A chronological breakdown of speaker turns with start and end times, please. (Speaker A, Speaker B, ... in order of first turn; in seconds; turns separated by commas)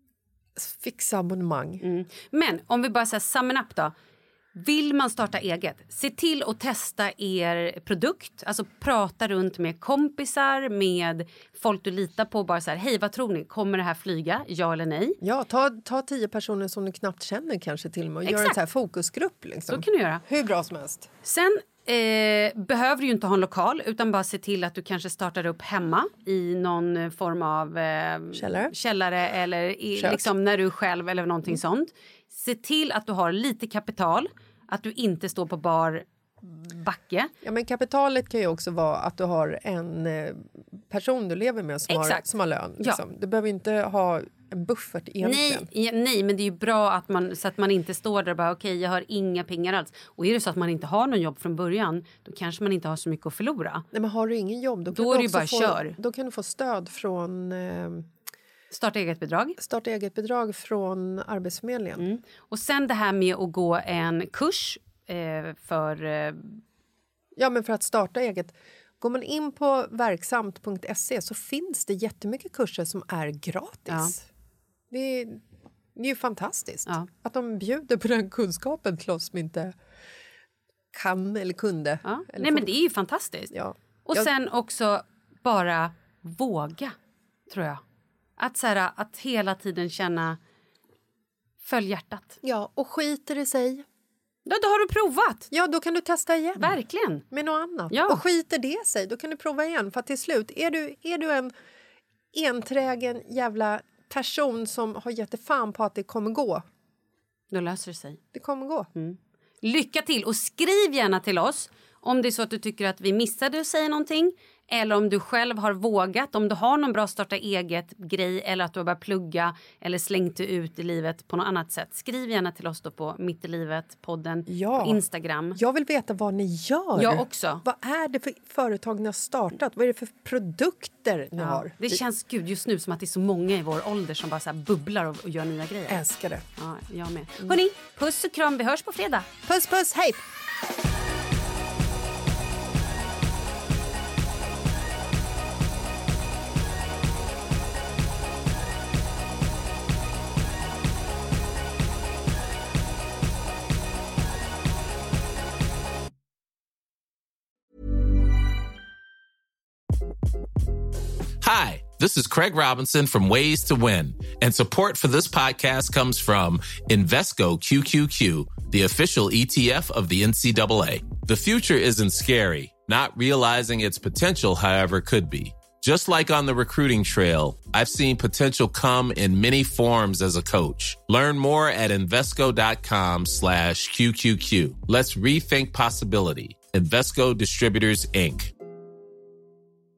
Speaker A: 0.6-1.8, Speaker B: 1.8-3.9, Speaker B: 4.5-15.2, Speaker A: 15.2-21.1, Speaker B: 18.2-18.6, Speaker B: 19.7-20.2, Speaker B: 21.2-37.3, Speaker A: 28.3-28.7, Speaker A: 29.9-30.3, Speaker A: 37.4-45.7, Speaker B: 41.9-42.2, Speaker B: 45.2-53.9, Speaker A: 53.9-58.1, Speaker B: 54.9-56.0, Speaker B: 58.7-59.6, Speaker A: 59.6-62.1, Speaker B: 62.0-66.6, Speaker A: 67.4-74.3, Speaker A: 74.9-75.4, Speaker A: 76.0-79.8, Speaker A: 80.9-82.7, Speaker B: 82.0-83.5, Speaker A: 83.5-84.3, Speaker B: 84.1-86.9, Speaker B: 87.5-87.8, Speaker B: 88.4-90.4, Speaker B: 91.6-92.4, Speaker A: 92.4-93.8, Speaker B: 94.5-95.5, Speaker A: 95.5-101.5, Speaker B: 96.6-97.2, Speaker B: 97.9-98.2, Speaker A: 102.3-106.7, Speaker B: 107.5-108.2, Speaker A: 108.3-108.9, Speaker B: 109.0-125.6, Speaker A: 124.5-125.0, Speaker A: 125.5-132.0, Speaker B: 127.0-127.6, Speaker B: 131.4-136.0, Speaker A: 135.9-136.4, Speaker B: 136.6-139.3, Speaker A: 139.5-140.2, Speaker C: 161.4-188.5